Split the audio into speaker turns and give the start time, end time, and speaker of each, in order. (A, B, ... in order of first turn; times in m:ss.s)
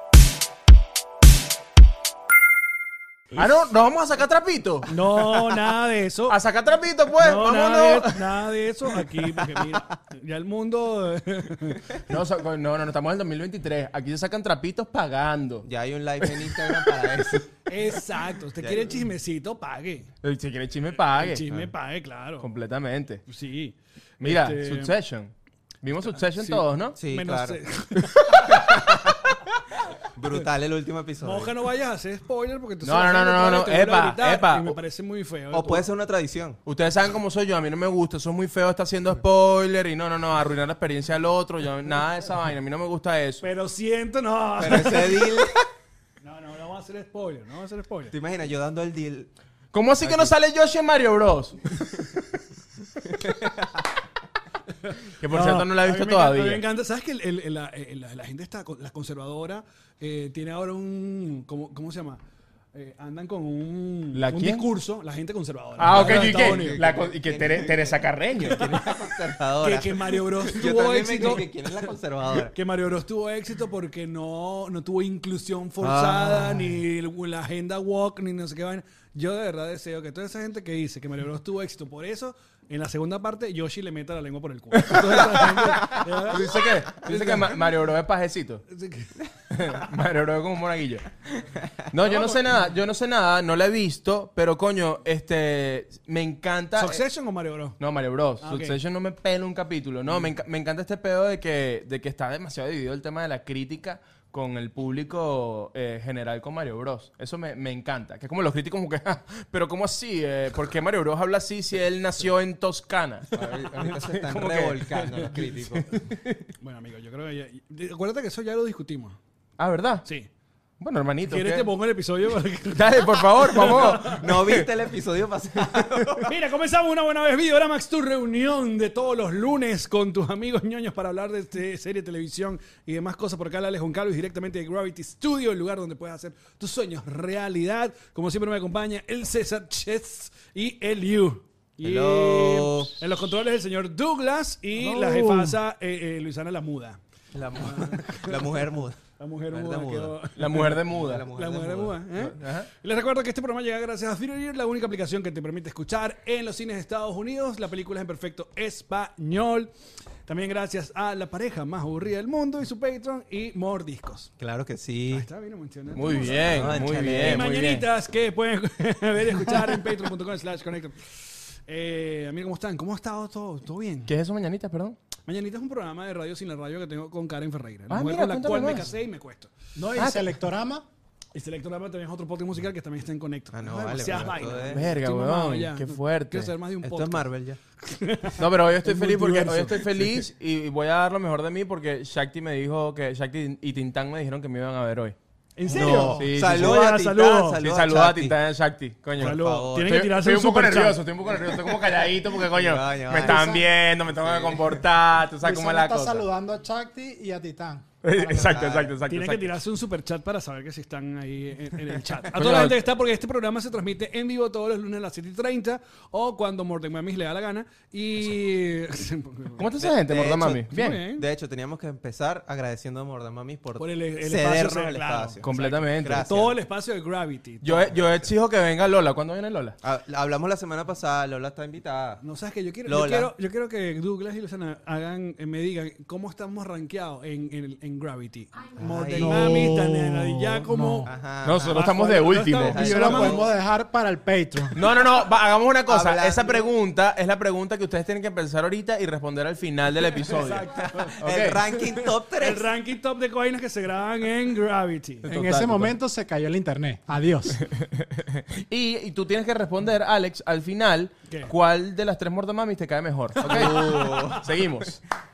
0:03.3-0:05.5 A
0:04.9-0:06.4 B
0:06.3-0:08.2 A
0:07.2-0:12.0 B
0:12.1-0:15.6 A
0:15.6-0:17.5 C
0:17.6-0:20.1 B
0:18.6-0:19.0 C
0:20.2-0:21.5 A
0:21.1-0:22.5 B
0:22.4-0:23.2 A
0:23.3-0:24.9 B
0:24.2-0:27.0 A
0:26.2-0:28.6 B
0:26.9-0:27.6 C
0:28.0-0:29.0 A
0:28.6-0:28.9 C
0:30.1-0:31.5 C
0:31.2-0:35.8 B
0:32.8-0:34.8 A
0:35.5-0:36.6 C
0:36.6-0:43.4 A
0:43.4-0:45.4 B
0:44.6-0:45.7 C
0:46.2-0:48.1 B
0:48.1-0:49.3 C
0:49.7-0:52.0 A
0:50.0-0:50.3 C
0:53.1-0:53.6 C
0:54.8-1:02.2 B
0:55.2-0:56.6 A
1:02.7-1:07.1 B
1:04.1-1:04.7 A
1:05.8-1:08.8 A
1:05.9-1:12.5 C
1:08.6-1:08.9 B
1:09.6-1:11.5 B
1:12.5-1:27.3 B
1:15.8-1:16.7 C
1:24.8-1:28.6 A
1:27.0-1:27.3 C
1:28.7-1:29.2 B
1:29.5-1:31.1 A
1:31.9-1:37.0 A
1:32.1-1:32.3 B
1:36.8-1:37.8 B
1:37.8-1:55.2 A
1:38.4-1:38.8 B
1:53.3-1:55.9 C
1:55.8-1:56.4 A
1:56.6-1:59.2 B
1:59.6-2:00.0 A
2:00.8-2:01.7 A
2:01.3-2:04.1 B
2:02.7-2:04.7 A
2:03.6-2:06.3 C
2:06.2-2:27.0 B
2:21.8-2:23.0 C
2:24.8-2:25.6 D
2:27.3-2:29.0 C
2:27.6-2:28.4 B
2:29.2-2:39.7 B
2:29.5-2:32.0 C
2:30.3-2:31.3 A
2:32.2-2:32.7 A
2:40.3-2:44.3 B
2:44.4-2:45.2 C
2:45.1-2:54.1 B
2:45.9-2:47.8 A
2:46.3-2:47.5 C
2:54.1-2:55.0 A
2:55.3-2:59.5 B
2:57.9-2:58.9 A
2:59.8-3:00.8 D
2:59.9-3:00.3 A
3:01.3-3:07.3 B
3:03.5-3:05.0 C
3:04.7-3:06.5 A
3:06.8-3:07.6 C
3:07.8-3:10.2 B
3:08.4-3:15.2 A
3:15.6-3:17.6 B
3:15.7-3:16.3 D
3:15.7-3:16.8 A
3:16.3-3:18.4 C
3:17.6-3:26.2 A
3:19.2-3:20.0 C
3:19.2-3:21.0 B
3:22.4-3:23.5 C
3:23.2-3:23.7 D
3:24.2-3:24.8 C
3:25.4-3:28.6 D
3:28.0-3:29.6 A
3:28.3-3:28.9 C
3:29.0-3:39.6 B
3:32.3-3:32.8 A
3:39.6-3:41.0 A
3:39.8-3:46.6 C
3:40.7-3:41.2 B
3:43.8-3:48.0 B
3:45.4-3:46.3 A
3:47.6-3:49.8 A
3:49.8-3:52.2 C
3:52.2-4:01.1 B
3:52.8-3:53.3 C
3:58.8-3:59.7 C
3:59.2-4:01.1 D
4:01.0-4:01.9 C
4:01.4-4:03.5 A
4:01.7-4:03.4 B
4:02.6-4:03.5 C
4:02.7-4:04.7 D
4:04.7-4:10.6 A
4:05.9-4:06.6 C
4:10.2-4:15.3 B
4:10.8-4:12.7 C
4:11.2-4:11.6 A
4:15.2-4:17.6 D
4:15.3-4:16.0 A
4:17.8-4:25.0 A
4:23.4-4:24.6 C
4:23.4-4:24.3 B